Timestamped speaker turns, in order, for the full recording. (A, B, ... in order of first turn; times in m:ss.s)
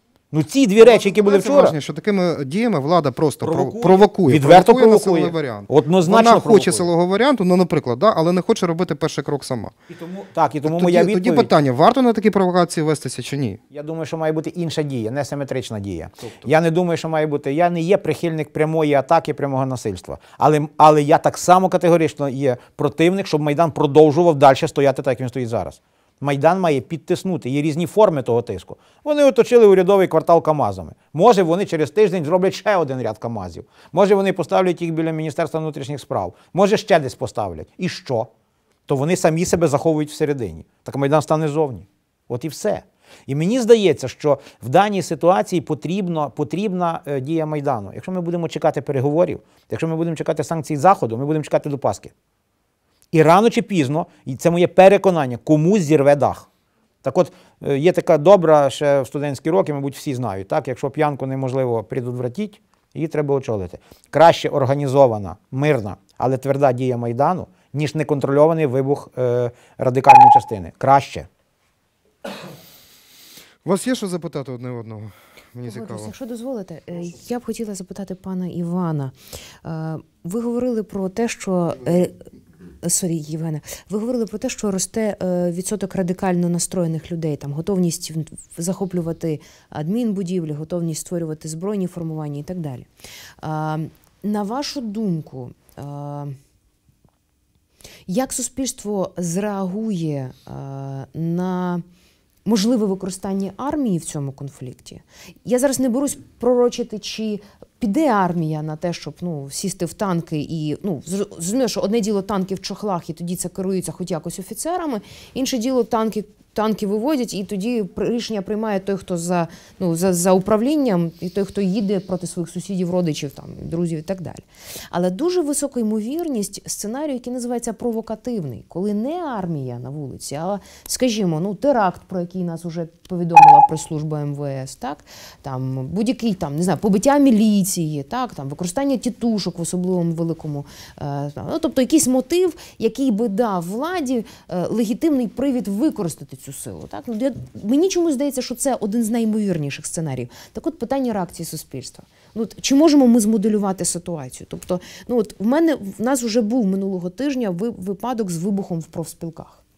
0:00.3-0:01.7 A
0:00.8-0:09.7 B
0:03.4-0:06.9 A
0:09.9-0:11.5 A
0:10.6-0:13.6 B
0:13.7-0:38.3 A
0:38.9-0:52.1 A
0:53.1-0:56.5 A
0:57.0-1:11.3 A
1:13.6-1:16.1 B
1:15.6-1:19.1 C
1:19.6-1:22.1 C
1:22.8-1:32.9 C
1:33.4-1:36.3 C
1:38.1-1:41.8 C
1:42.4-2:39.6 C